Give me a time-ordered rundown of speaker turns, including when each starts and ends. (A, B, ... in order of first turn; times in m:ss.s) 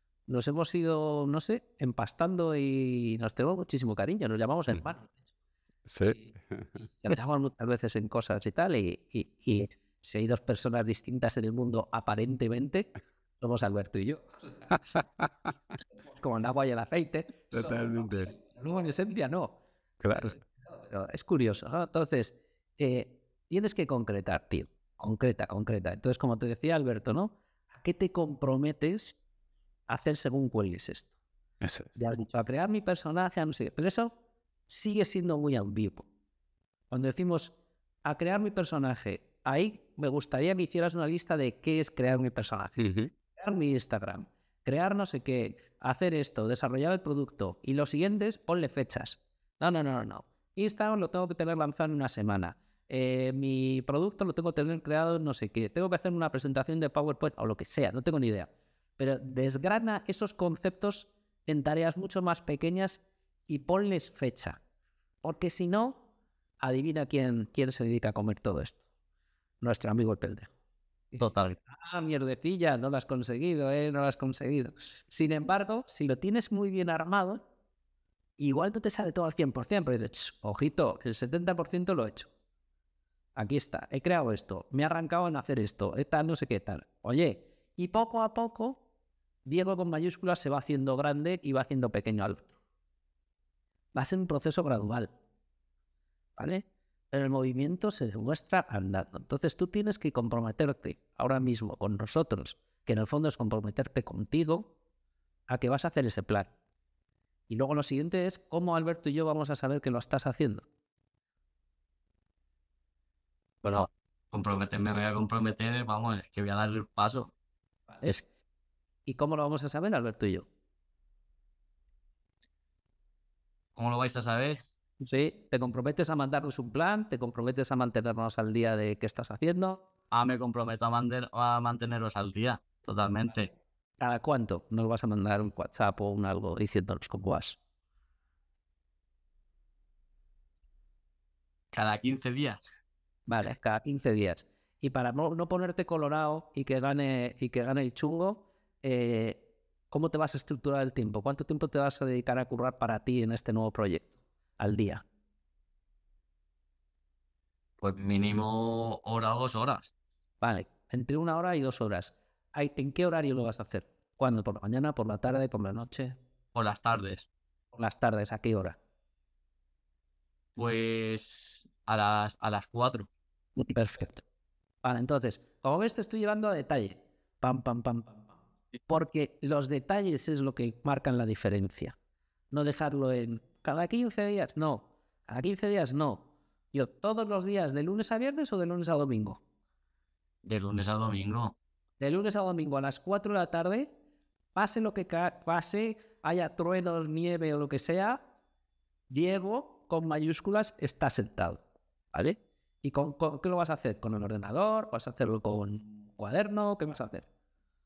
0:00.3-0:05.2 A
0:05.9-0:06.7 B
0:06.0-0:15.0 A
0:14.9-0:15.3 B
0:16.0-0:19.6 A
0:17.5-0:18.3 B
0:20.0-0:20.3 B
0:20.1-0:29.2 A
0:29.9-0:31.1 A
0:31.6-0:31.9 B
0:32.0-0:34.1 A
0:34.7-0:36.1 A
0:36.9-1:04.6 A
0:42.8-0:43.1 B
1:05.2-1:06.0 A
1:06.6-1:08.8 A
1:09.6-1:10.5 A
1:11.1-1:17.4 A
1:11.2-1:11.6 C
1:18.4-1:22.3 A
1:23.4-1:28.8 A
1:29.4-1:32.5 A
1:33.9-1:35.1 A
1:36.4-1:44.7 A
1:45.5-1:46.5 A
1:47.5-1:50.6 A
1:53.6-1:57.3 C
1:59.0-2:00.4 A
2:03.8-2:04.6 C
2:05.0-2:09.8 A
2:10.1-2:13.5 C
2:14.0-2:17.6 A
2:21.7-2:22.6 C
2:23.3-2:35.0 A
2:37.8-2:39.9 C
2:40.4-2:46.2 A
2:46.5-2:47.3 C
2:47.7-2:48.8 A
2:50.6-2:53.1 C
2:53.6-2:54.2 A
2:54.8-2:58.3 A
2:58.9-3:01.9 A
3:02.5-3:09.4 A
3:10.4-3:11.6 C
3:12.0-3:13.9 A
3:14.5-3:18.2 A
3:19.1-3:27.3 A